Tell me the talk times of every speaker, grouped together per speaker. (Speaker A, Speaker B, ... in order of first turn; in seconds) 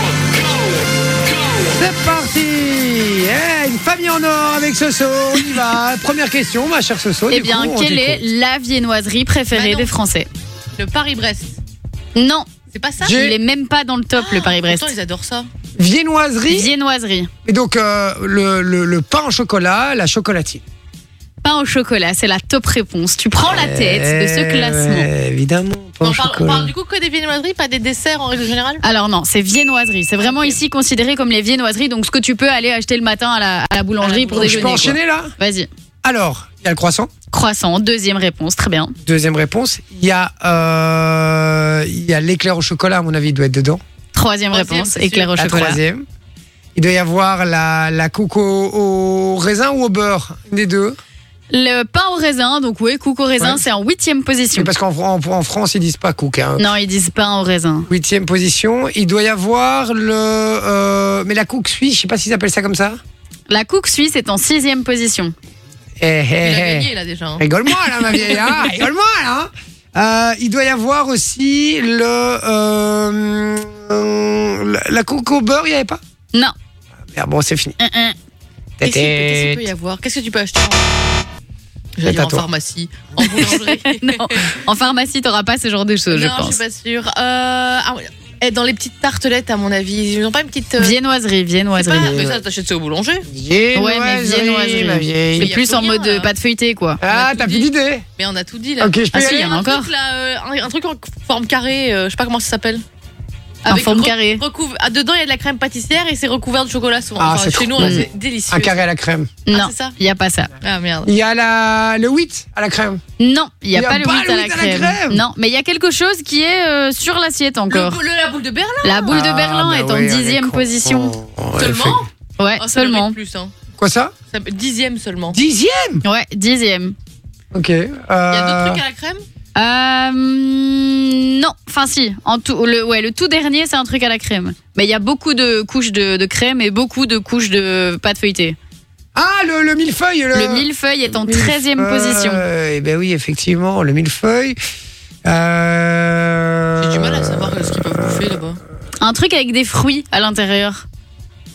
Speaker A: 1.7-8.2, 13.0-13.4, 15.8-16.7, 17.4-20.6, 23.4-26.7, 34.4-35.3, 36.0-37.1, 39.0-43.8, 45.4-46.0, 46.8-51.0, 53.4-53.6, 54.5-56.7, 57.9-63.0, 66.0-76.0, 77.1-77.8, 78.8-79.7, 82.0-82.5, 92.0-92.4, 93.3-95.5, 97.0-98.0, 98.8-99.5, 107.2-109.3, 111.0-113.0, 113.7-115.2, 119.1-122.0, 123.8-124.1, 125.3-126.0, 127.5-128.8, 139.1-144.6, 145.2-148.4
Speaker B: 7.3-10.3, 12.2-12.5, 13.0-14.9, 16.5-17.3, 21.4-25.1, 28.8-35.7, 37.3-38.9, 44.1-45.8, 51.5-54.7, 56.6-57.9, 63.5-65.3, 77.8-78.1, 83.2-86.6, 90.8-92.2, 93.7-97.0, 99.1-99.9, 103.7-104.4, 107.8-108.0, 109.5-110.5, 113.2-118.0, 118.8-121.2, 122.4-123.1, 126.0-126.9, 129.6-138.6, 140.3-142.4, 149.0-150.8
Speaker C: 9.5-9.9, 10.8-11.6, 12.7-13.2, 14.2-15.5, 26.0-28.8, 30.2-30.6, 34.0-34.9, 44.5-45.3, 66.4-67.4, 78.8-81.1, 82.0-84.5, 86.1-91.0, 91.7-93.2, 95.3-96.3, 97.0-102.8, 103.7-108.8, 109.5-109.9, 110.6-111.1, 117.7-119.2, 121.6-123.5, 124.3-125.4, 128.3-129.2, 146.8-148.6